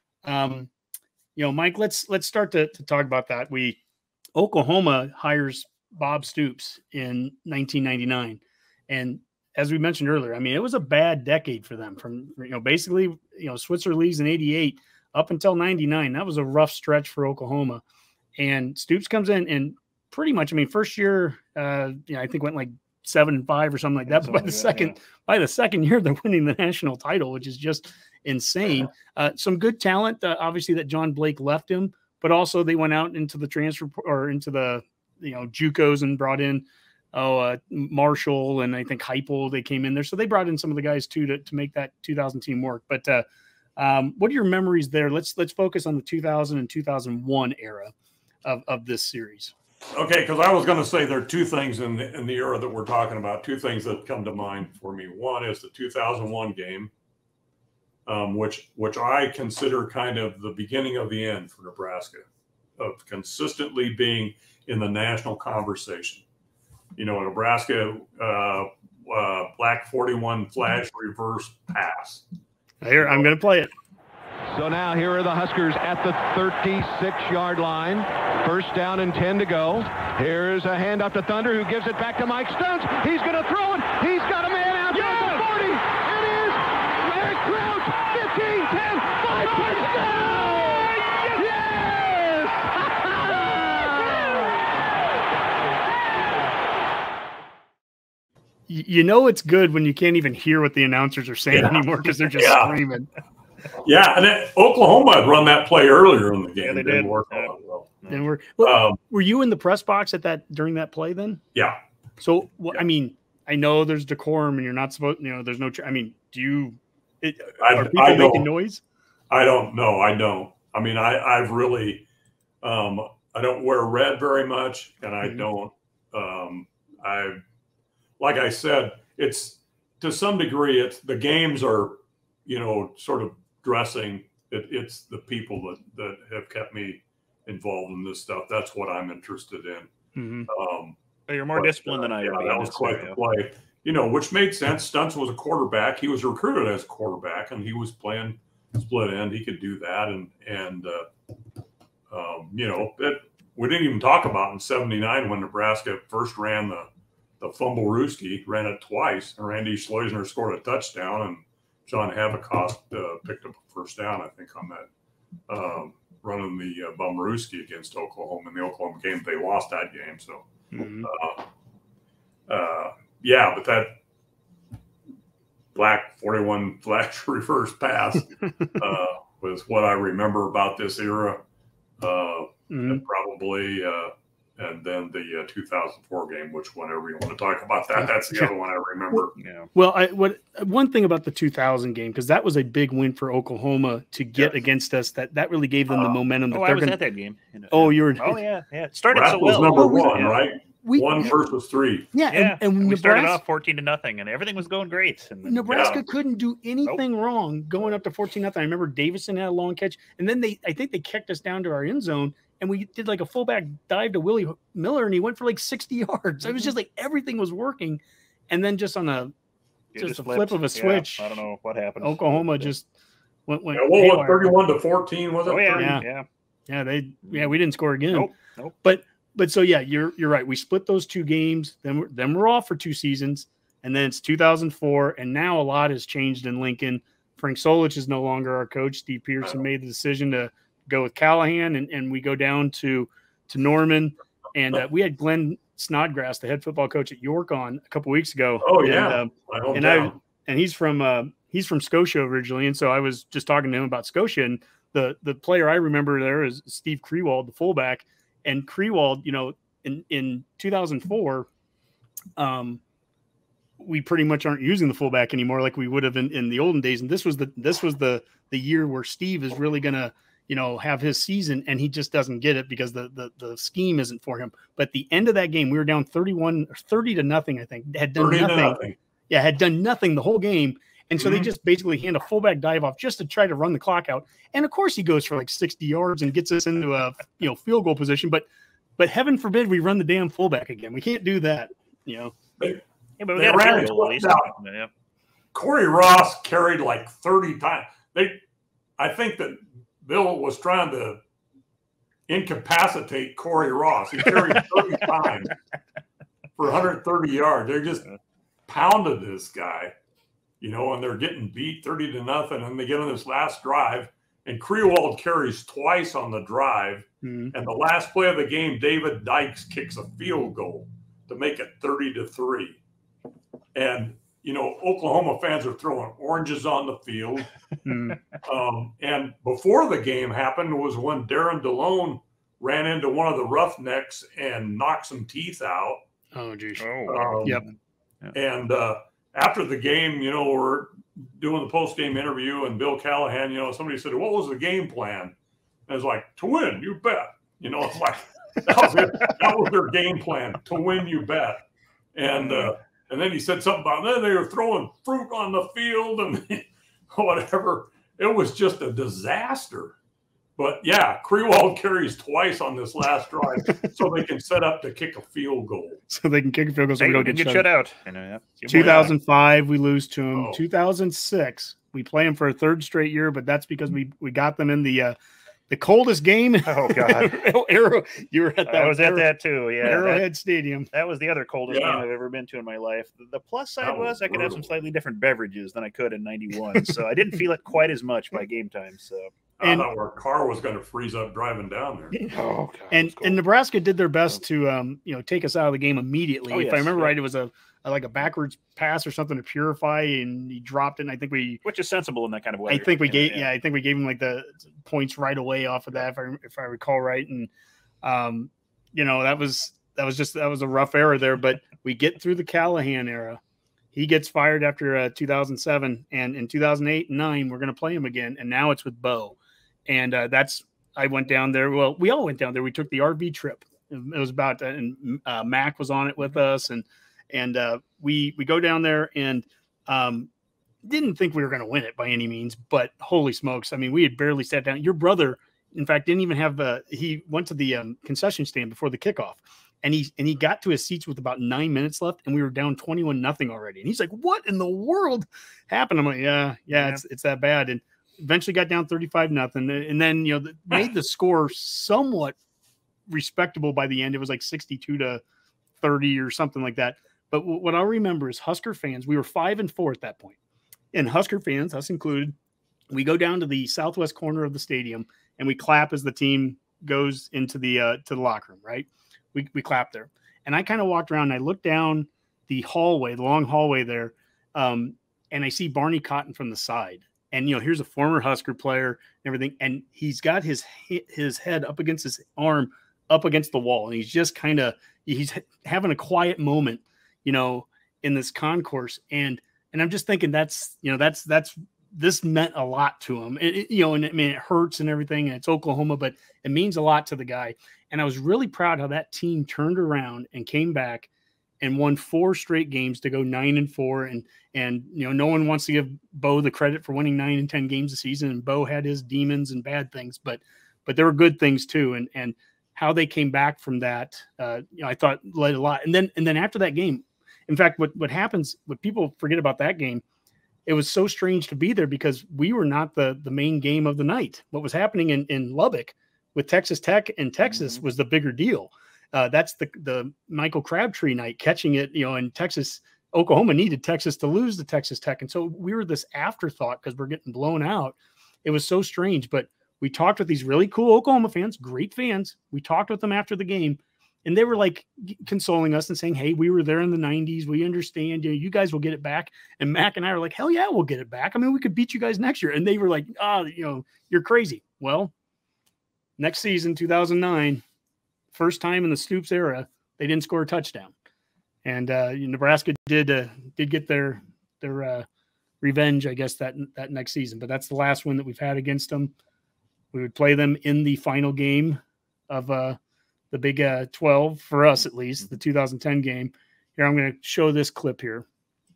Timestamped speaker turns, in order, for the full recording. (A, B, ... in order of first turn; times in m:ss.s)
0:00.2-0:00.7 A
0:01.4-0:03.8 A
0:04.4-0:17.8 A
0:18.4-0:43.2 A
0:24.1-0:25.0 B
0:43.8-0:47.9 A
0:48.4-0:49.5 A
0:49.9-0:56.9 C
0:58.1-1:02.3 C
1:02.8-1:06.2 C
1:07.0-1:12.2 C
1:12.8-1:13.7 A
1:13.0-1:13.3 C
1:14.5-1:34.3 D
1:38.7-1:43.1 A
1:41.5-1:42.8 C
1:43.8-1:47.9 C
1:46.6-1:48.2 B
1:48.1-1:51.4 A
1:48.6-1:49.0 C
1:52.2-1:58.8 A
1:57.6-1:58.5 C
1:59.3-2:02.0 C
2:02.6-2:07.4 C
2:08.2-2:19.9 C
2:20.2-2:20.5 A
2:20.5-2:21.0 C
2:21.3-2:23.2 B
2:21.5-2:31.1 C
2:32.1-2:36.9 C
2:37.4-2:44.9 C
2:45.5-2:51.5 C
2:50.7-2:51.1 A
2:52.5-2:54.0 C
2:55.8-3:01.4 C
3:02.0-3:09.3 C
3:02.7-3:03.0 A
3:08.0-3:08.5 A
3:09.4-3:09.7 B
3:09.8-3:17.0 A
3:16.1-3:20.4 B
3:17.7-3:18.4 A
3:19.1-3:22.2 C
3:19.4-3:20.3 A
3:20.8-3:21.3 A
3:22.1-3:23.4 A
3:22.3-3:26.0 B
3:25.4-3:39.3 A
3:25.7-3:26.0 C
3:39.9-3:42.7 B
3:40.0-3:41.3 A
3:42.0-3:42.9 A
3:43.5-3:44.6 A
3:43.7-3:46.0 C
3:45.4-3:46.3 B
3:45.7-3:46.0 A
3:46.7-3:48.3 A
3:48.1-3:48.8 B
3:48.8-4:21.5 A
4:08.6-4:10.2 C
4:22.4-4:22.8 A
4:23.8-4:52.3 A
4:38.2-4:39.0 C
4:41.2-4:41.5 C
4:53.2-4:54.9 B
4:53.3-4:54.5 C
4:55.5-4:58.4 C
4:59.0-5:01.2 C
5:02.3-5:05.6 C
5:06.6-5:08.1 C
5:08.7-5:09.9 C
5:10.6-5:22.8 C
5:17.2-5:17.5 A
5:23.8-5:27.5 C
5:27.8-5:28.2 A
5:28.4-5:36.0 C
5:36.4-5:37.7 A
5:36.8-5:37.5 B
5:37.1-5:37.6 C
5:38.3-5:45.4 C
5:45.9-5:51.6 C
5:52.2-6:00.0 C
6:00.6-6:06.0 C
6:06.1-6:07.7 A
6:07.0-6:09.2 B
6:08.7-6:15.2 A
6:10.3-6:10.6 C
6:15.7-6:20.9 A
6:16.6-6:17.5 B
6:18.7-6:20.3 B
6:20.9-6:29.3 B
6:21.7-6:22.1 C
6:23.8-6:24.8 C
6:29.6-6:32.2 C
6:29.6-6:29.9 A
6:32.3-6:33.4 B
6:32.9-6:41.6 A
6:36.5-6:37.2 B
6:41.6-6:43.5 B
6:42.7-6:47.5 A
6:48.0-6:53.4 A
6:53.9-7:10.3 A
7:10.8-7:32.4 A
7:33.1-7:35.2 A
7:35.8-7:40.4 A
7:40.9-7:42.4 A
7:42.9-8:21.1 A
8:21.6-8:40.0 A
8:40.7-9:15.1 A
9:16.2-9:17.6 A
9:18.3-9:20.9 A
9:21.6-9:25.1 A
9:25.6-9:29.1 A
9:29.9-9:32.8 A
9:33.3-9:38.3 A